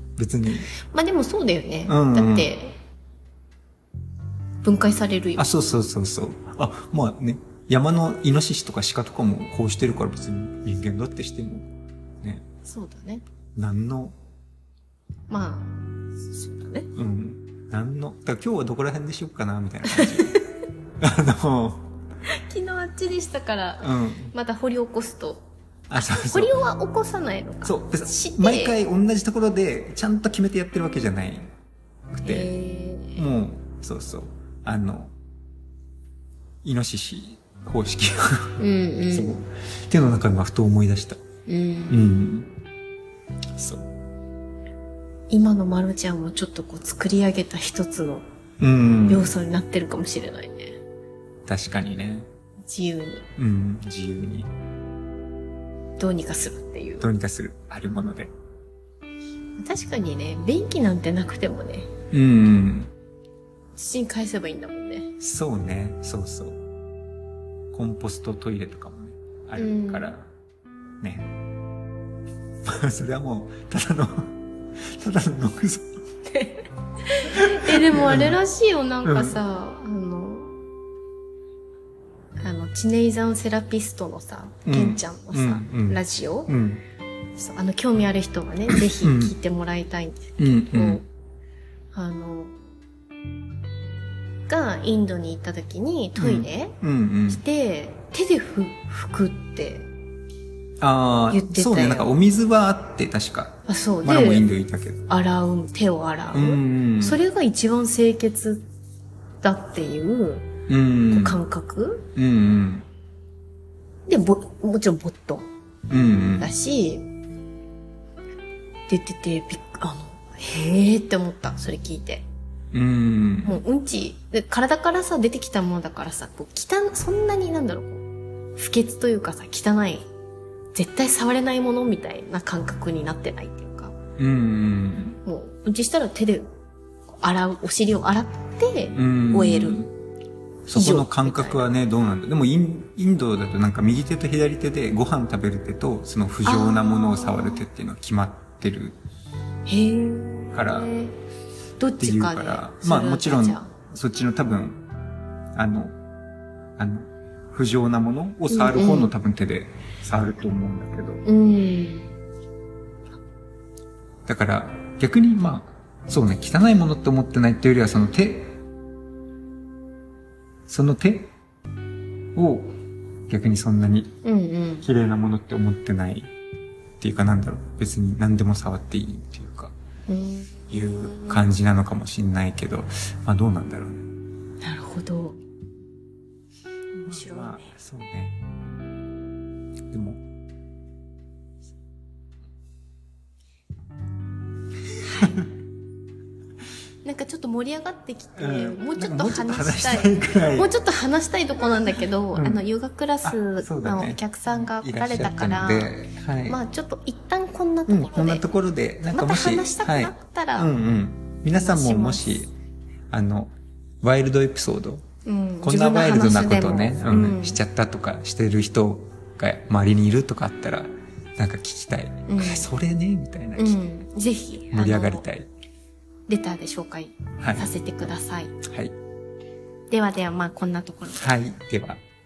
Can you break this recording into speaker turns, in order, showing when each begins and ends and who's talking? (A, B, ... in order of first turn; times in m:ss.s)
0:00.2-0:00.7 A
0:00.8-0:02.8 B
0:01.8-0:02.5 A
0:04.6-0:05.5 B
0:05.4-0:11.7 A
0:12.6-0:13.2 B
0:13.6-0:14.1 A
0:15.3-0:16.9 B
0:16.9-0:20.3 A
0:19.9-0:20.4 B
0:21.0-0:21.9 A
0:22.3-0:28.8 B
0:23.8-0:24.3 A
0:25.9-0:26.6 A
0:27.6-0:31.5 A
0:32.1-0:32.5 A
0:32.2-0:33.2 B
0:33.1-0:35.1 A
0:36.6-0:41.2 A
0:38.6-0:39.4 B
0:41.5-0:42.0 B
0:41.9-0:42.5 A
0:43.5-0:43.9 A
0:45.3-0:48.2 B
0:48.6-0:49.3 A
0:49.1-0:50.8 B
0:51.4-0:52.3 A
0:52.7-0:53.3 B
0:53.4-0:54.5 A
0:56.0-0:57.1 B
0:57.0-0:58.3 A
0:59.6-1:01.9 B
1:02.1-1:02.9 A
1:03.8-1:05.1 B
1:05.2-1:06.6 A
1:07.7-1:10.3 A
1:09.6-1:10.1 B
1:11.0-1:11.3 A
1:12.6-1:16.0 A
1:16.3-1:20.6 B
1:17.3-1:18.4 A
1:19.0-1:19.4 A
1:22.4-1:26.5 B
1:24.6-1:26.8 A
1:27.4-1:31.0 B
1:29.0-1:29.3 A
1:30.4-1:31.0 A
1:31.9-1:32.5 B
1:34.5-1:36.7 B
1:36.2-1:37.4 A
1:37.3-1:39.9 B
1:40.8-1:45.0 A
1:41.3-1:42.1 B
1:43.7-1:44.5 B
1:45.1-1:48.6 B
1:46.3-1:47.2 A
1:49.4-1:50.5 B
1:50.7-1:51.4 A
1:51.1-1:52.1 B
1:52.1-1:52.9 A
1:54.1-1:55.5 B
1:55.9-1:56.5 A
1:56.4-1:57.1 B
1:58.9-2:02.2 B
2:02.7-2:03.6 A
2:03.4-2:08.0 B
2:08.5-2:10.1 B
2:10.7-2:14.0 B
2:14.2-2:15.2 A
2:15.2-2:16.5 B
2:17.2-2:19.8 B
2:18.9-2:19.9 A
2:20.6-2:29.0 A
2:20.7-2:21.6 B
2:26.4-2:27.6 B
2:29.7-2:31.2 B
2:30.5-2:30.9 A
2:31.8-2:33.7 B
2:32.0-2:34.8 A
2:35.5-2:35.9 A
2:36.8-2:41.2 A
2:38.5-2:39.1 B
2:41.2-2:42.1 B
2:44.2-2:48.6 A
2:50.7-2:51.3 A
2:52.3-2:52.7 A
2:53.3-2:54.1 A
2:54.2-2:54.9 B
2:54.8-2:56.3 A
2:57.0-2:59.7 A
3:00.1-3:01.4 B
3:00.7-3:04.0 A
3:04.6-3:05.4 B
3:07.0-3:07.7 B
3:07.0-3:08.4 A
3:09.9-3:10.2 A
3:15.0-3:15.4 B
3:15.1-3:15.5 A
3:17.0-3:25.9 B
3:18.4-3:20.7 A
3:22.3-3:22.6 A
3:23.2-3:26.6 A
3:26.4-3:28.4 B
3:27.9-3:32.5 A
3:29.1-3:30.7 B
3:31.5-3:32.4 B
3:33.1-3:35.0 A
3:35.2-3:37.6 B
3:35.6-3:43.8 A
3:42.3-3:42.7 B
3:43.6-3:45.2 B
3:44.7-3:45.5 A
3:46.3-3:48.6 B
3:47.4-3:47.7 A
3:48.6-3:48.9 A
3:49.9-3:51.3 B
3:51.1-3:52.0 A